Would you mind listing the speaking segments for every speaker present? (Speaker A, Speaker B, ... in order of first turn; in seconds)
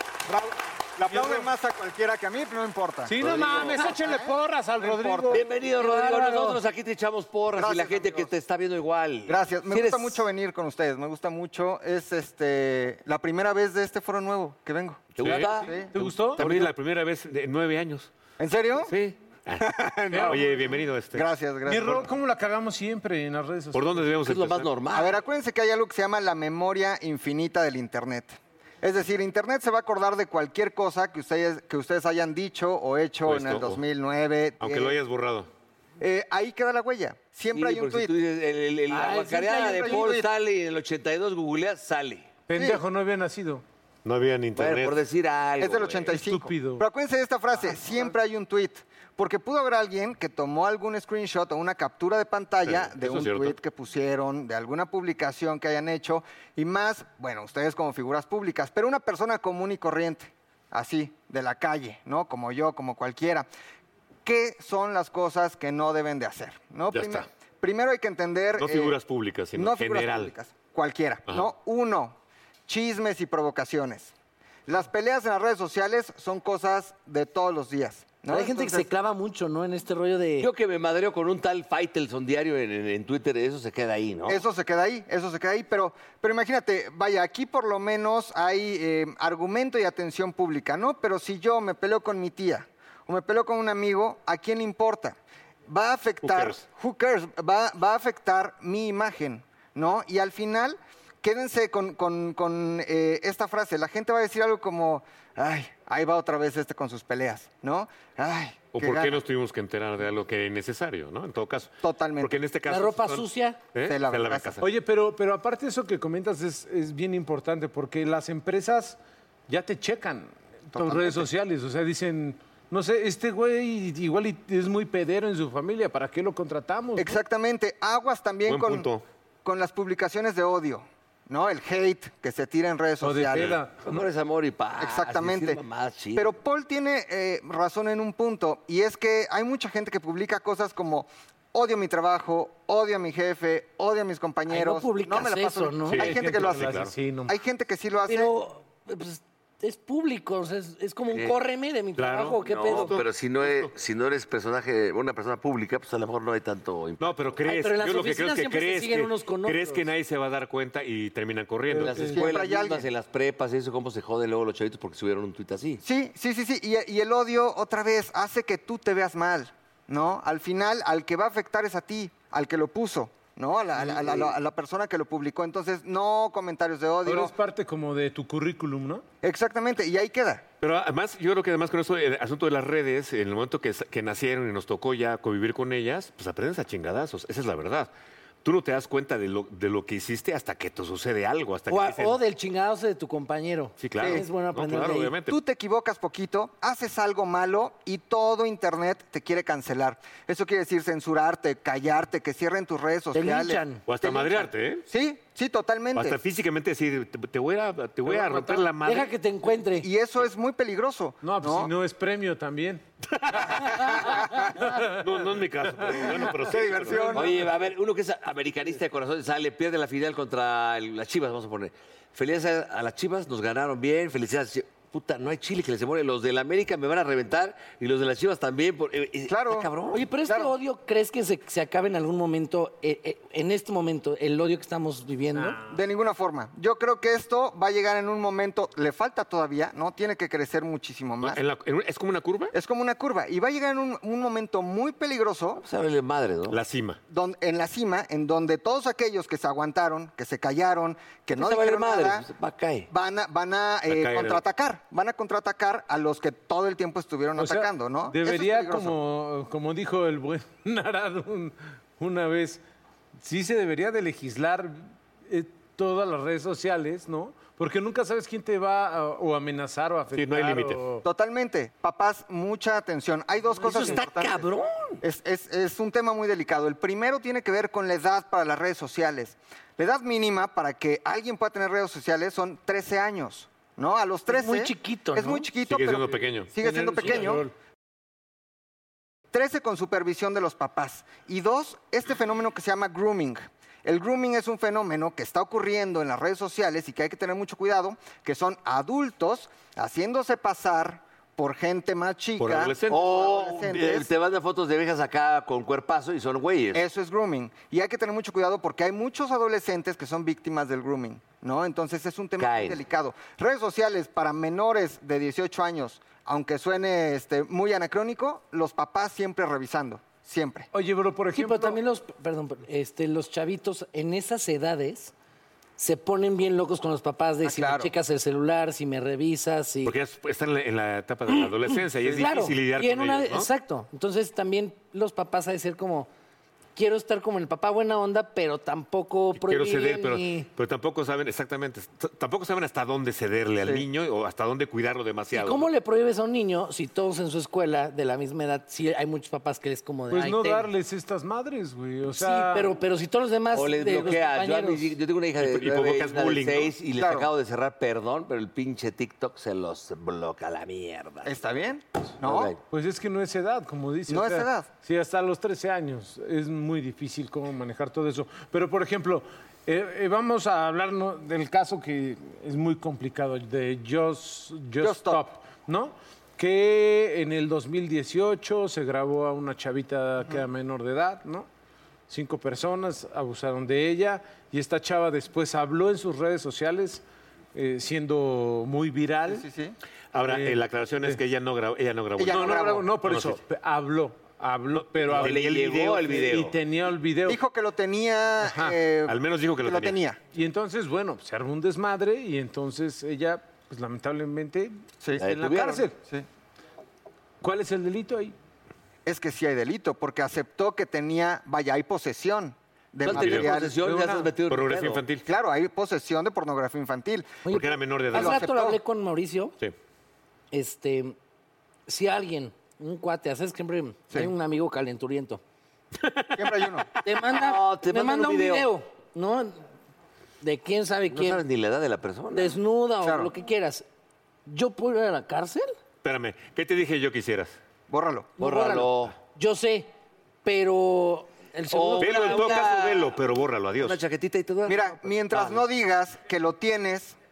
Speaker A: 0.3-3.1, 3.7-5.4, 7.5-8.3, 9.3-15.9, 18.4-18.9, 19.6-20.5, 21.1-22.1, 24.9-35.0, 36.0-38.1, 39.6-40.3, 42.5-42.8, 45.6-63.5, 64.2-69.0, 69.5-72.2, 72.7-74.1, 74.7-78.9, 84.3-109.2, 111.8-112.3, 113.8-114.6, 120.7-121.3, 127.0-128.9, 129.4-133.5, 134.8-135.6, 136.2-148.3, 162.1-162.8, 165.8-177.3, 179.2-180.4, 194.0-194.2, 195.3-206.2, 209.8-211.7, 213.7-214.6, 216.4-217.3, 229.3-230.5, 235.6-241.4, 242.5-245.6, 247.1-252.2, 252.9-258.9, 271.0-274.4, 275.0-287.4, 289.3-304.1, 306.7-320.7, 327.4-327.9, 343.6-343.8, 356.9-357.3, 361.2-362.5, 364.1-364.7, 374.8-375.2, 389.3-389.8, 392.2-392.9, 397.2-400.2, 406.0-406.2, 409.1-413.8, 415.2-417.4, 418.1-418.8, 426.4-426.9, 433.0-433.3, 437.9-438.3, 444.6-447.2
Speaker B: 1.1-1.5, 3.1-5.5, 15.3-16.5, 20.1-20.4, 21.6-24.1, 42.5-43.6, 46.1-46.8, 114.6-127.2, 133.0-134.0, 145.9-147.4, 161.7-162.3, 177.0-179.0, 208.1-208.7, 211.2-212.8, 214.0-215.0, 215.8-217.4, 235.3-235.8, 257.4-262.6, 263.2-271.0, 273.6-274.0, 286.6-287.5, 320.7-321.8, 350.1-352.7, 362.7-381.5, 382.1-387.0, 387.5-389.5, 390.2-391.2, 392.2-397.4, 398.4-398.8, 400.3-406.0, 407.4-408.3, 413.7-414.3
Speaker C: 3.2-3.9, 5.3-10.2, 15.2-15.8, 24.2-25.2, 37.5-42.3, 44.5-46.1, 80.4-84.4, 133.8-136.3, 152.4-157.4, 161.8-165.8, 174.0-174.3, 217.1-230.0, 245.6-246.6, 251.3-252.9, 273.6-275.0, 302.9-306.8, 312.4-312.8, 353.5-361.3, 362.2-362.6, 395.1-396.5, 405.2-405.9, 413.0-415.1, 427.3-428.7, 431.1-432.6, 438.4-439.1, 441.7-443.1, 443.8-445.6
Speaker D: 5.6-6.6, 38.9-40.1, 78.3-80.5, 112.7-113.6, 144.5-146.1, 148.1-152.9, 157.5-159.8, 191.7-195.2, 203.1-203.8, 208.8-209.9, 229.9-235.6, 284.3-285.5, 321.3-325.1, 325.8-329.9, 331.4-336.1, 336.8-340.5, 345.3-350.7, 352.1-354.9, 417.4-419.5, 420.5-421.1, 421.9-425.4, 427.0-429.6, 430.4-431.4, 432.3-433.9, 434.4-435.7, 438.4-439.9, 440.4-442.8
Speaker E: 15.2-18.1, 18.9-19.7, 20.2-21.3, 23.7-24.7, 33.2-33.8, 34.6-35.5, 44.0-45.0, 52.6-53.6, 66.9-67.3, 68.6-70.3, 96.2-96.6, 108.7-114.6, 128.5-129.0, 145.9-146.9, 152.0-153.7, 157.0-162.1, 180.6-187.9, 188.4-192.2, 193.8-195.4, 203.8-204.8, 205.9-209.1, 213.1-213.9, 215.0-217.2, 241.2-242.5, 246.5-247.0, 253.9-254.4, 270.1-270.8, 285.6-286.5, 302.4-303.2, 329.8-333.5, 339.3-345.7, 355.4-356.7, 390.1-393.4, 394.7-396.2, 399.1-400.0, 413.1-413.6, 414.5-415.2, 417.5-418.4, 426.0-426.5, 436.0-437.6, 442.0-444.0